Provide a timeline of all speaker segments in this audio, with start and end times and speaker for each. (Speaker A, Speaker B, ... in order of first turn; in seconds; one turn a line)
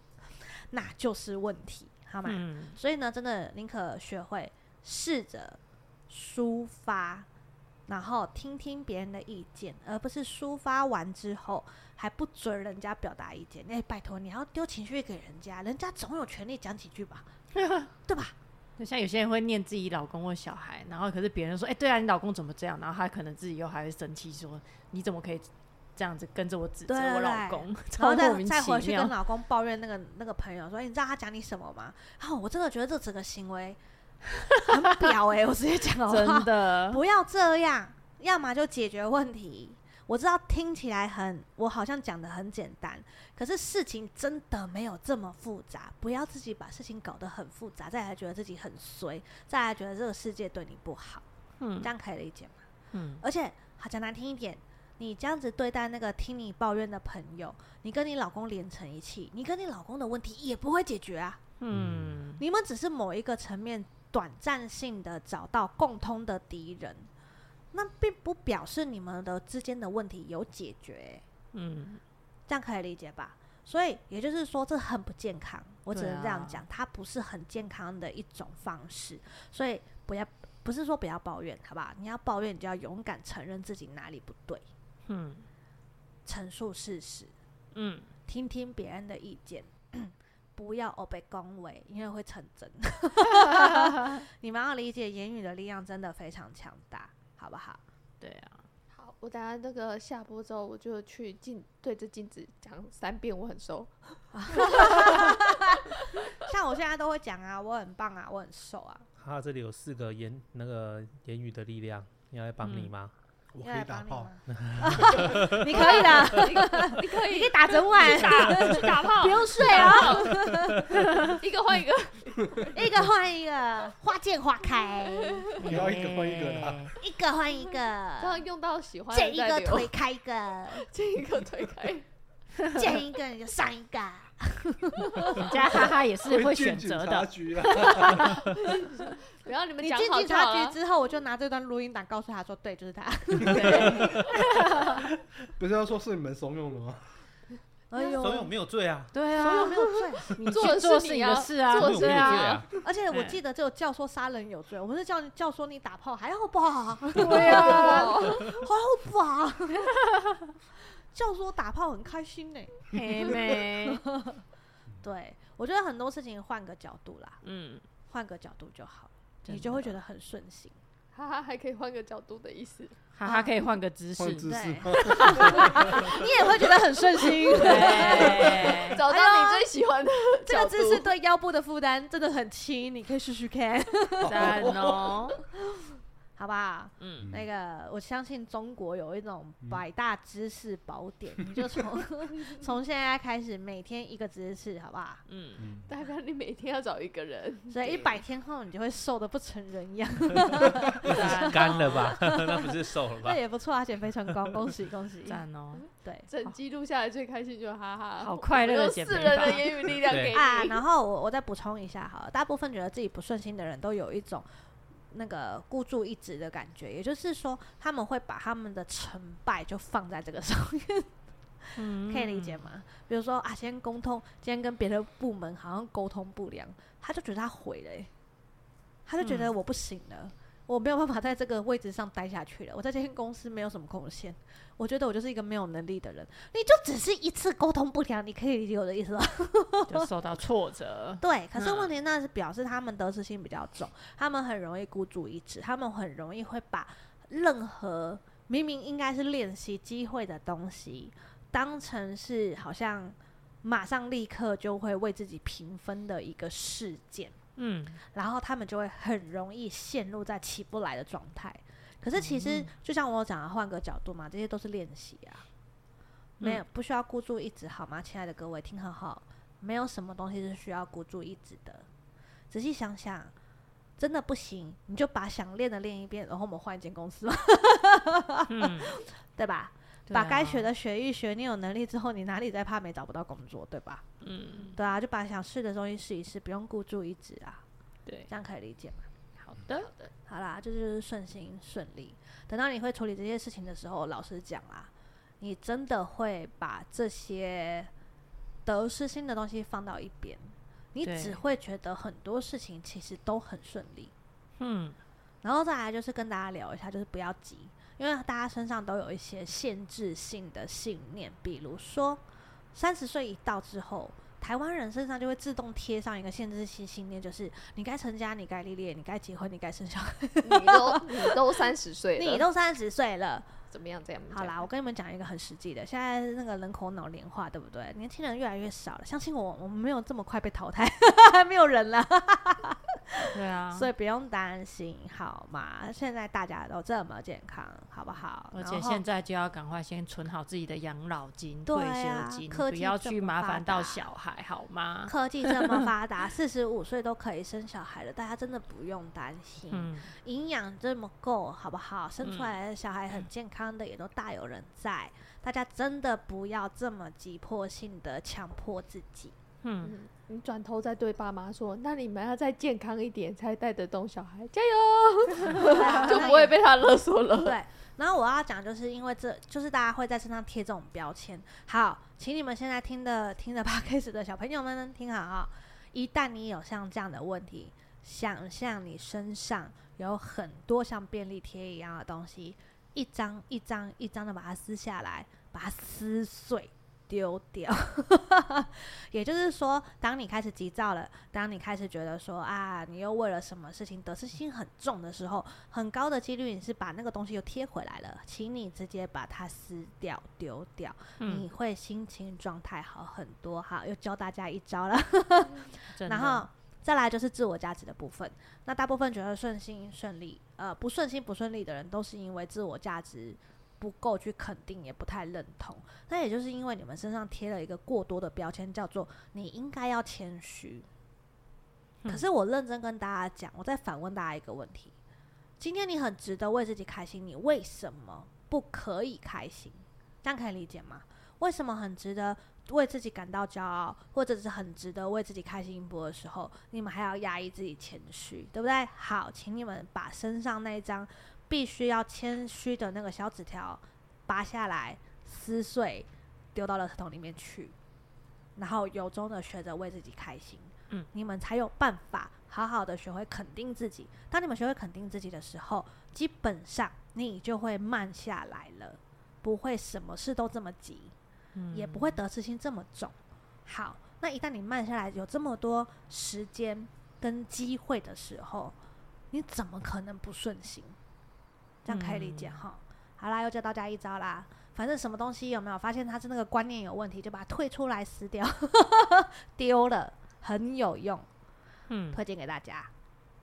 Speaker A: 0.7-7.3
Speaker B: 2.2-2.8
Speaker A: 7.9-17.3
Speaker B: 17.5-17.9
Speaker A: 18.1-18.3
Speaker B: 18.8-29.1
Speaker A: 26.9-33.8
Speaker B: 34.5-35.1
Speaker A: 34.6-51.2
Speaker B: 36.1-37.0
Speaker B: 51.6-51.9
Speaker A: 51.8-52.6
Speaker B: 52.9-53.2
Speaker A: 53.2-61.4
Speaker B: 61.6-62.4
Speaker C: 61.7-62.2
Speaker A: 62.4-67.1
Speaker A: 67.7-71.2
Speaker B: 71.5-72.0
Speaker A: 72.5-84.7
Speaker B: 75.9-76.6
Speaker B: 85.1-85.5
Speaker A: 86.2-87.3
Speaker B: 87.7-88.1
Speaker A: 88.3-97.8
Speaker B: 93.4-94.0
Speaker B: 98.2-98.6
Speaker D: 98.9-103.9
Speaker A: 104.3-109.1
Speaker D: 104.5-105.4
Speaker E: 109.2-113.1
Speaker B: 112.6-112.9
Speaker C: 113.5-114.3
Speaker A: 113.6-121.3
Speaker E: 114.5-116.3
Speaker D: 115.2-120.4
Speaker D: 121.1-122.7
Speaker A: 122.7-125.5
Speaker D: 125.0-125.5
Speaker B: 125.6-126.9
Speaker C: 125.6-127.0
Speaker A: 127.0-128.4
Speaker D: 128.2-129.9
Speaker A: 129.1-130.9
Speaker D: 130.7-132.1
Speaker A: 132.7-135.5
Speaker B: 135.3-138.4
Speaker C: 136.2-138.4
Speaker D: 138.2-140.8
Speaker A: 139.8-144.2
Speaker B: 143.4-144.9
Speaker E: 143.5-144.3
Speaker C: 145.6-147.0
Speaker A: 147.9-148.5
Speaker E: 148.2-149.1
Speaker B: 149.1-152.6
Speaker A: 149.3-150.3
Speaker D: 150.5-152.7
Speaker E: 151.7-152.7
Speaker A: 152.8-159.9
Speaker B: 153.1-153.4
Speaker B: 157.2-158.3
Speaker D: 157.5-158.6
Speaker A: 161.1-164.4
Speaker B: 162.9-164.0
Speaker A: 165.0-167.4
Speaker B: 167.4-167.8
Speaker A: 168.1-170.8
Speaker B: 169.4-169.9
Speaker D: 171.1-172.9
Speaker B: 173.2-176.1
Speaker A: 173.2-173.5
Speaker C: 174.2-176.3
Speaker A: 174.5-179.7
Speaker B: 177.5-179.0
Speaker D: 177.5-181.1
Speaker A: 180.4-184.9
Speaker C: 184.2-185.0
Speaker B: 184.2-185.3
Speaker A: 186.4-195.2
Speaker B: 187.0-187.3
Speaker C: 187.2-187.5
Speaker B: 195.3-195.7
Speaker C: 195.6-195.9
Speaker D: 195.9-198.2
Speaker A: 197.7-205.4
Speaker B: 201.0-202.1
Speaker E: 201.0-203.4
Speaker B: 205.2-205.8
Speaker D: 205.7-210.8
Speaker A: 206.0-206.3
Speaker B: 208.2-209.8
Speaker E: 210.0-210.3
Speaker A: 210.3-214.5
Speaker A: 215.1-221.1
Speaker A: 221.6-228.1
Speaker B: 221.8-222.7
Speaker A: 229.1-240.1
Speaker B: 229.2-229.5
Speaker B: 239.9-241.9
Speaker A: 241.2-257.4
Speaker B: 257.6-258.0
Speaker A: 258.1-265.4
Speaker B: 262.1-262.7
Speaker A: 266.4-271.9
Speaker A: 272.5-273.3
Speaker A: 274.0-284.0
Speaker B: 278.5-278.9
Speaker B: 280.1-280.7
Speaker B: 284.2-284.8
Speaker A: 284.7-287.6
Speaker A: 288.3-289.0
Speaker B: 289.4-289.9
Speaker D: 289.8-290.1
Speaker A: 290.3-294.9
Speaker A: 295.4-297.9
Speaker A: 298.6-304.1
Speaker B: 301.0-301.4
Speaker B: 304.6-304.9
Speaker A: 305.4-312.2
Speaker A: 312.7-321.4
Speaker D: 320.4-322.5
Speaker A: 322.2-323.5
Speaker D: 323.7-324.6
Speaker A: 324.3-339.0
Speaker B: 333.2-333.9
Speaker B: 338.5-345.8
Speaker A: 341.6-344.0
Speaker A: 345.1-359.3
Speaker B: 349.7-350.1
Speaker B: 352.2-352.5
Speaker B: 359.6-359.9
Speaker D: 359.8-367.6
Speaker A: 365.5-366.6
Speaker A: 367.4-420.9
Speaker B: 401.2-401.5
Speaker B: 405.9-406.5
Speaker A: 422.1-424.9
Speaker A: 425.6-447.7
Speaker A: 448.6-461.1
Speaker B: 461.5-462.2
Speaker A: 461.7-463.1
Speaker A: 463.6-468.7
Speaker A: 469.3-470.9
Speaker A: 471.8-481.3
Speaker B: 471.9-472.6
Speaker B: 481.9-482.2
Speaker A: 482.1-482.9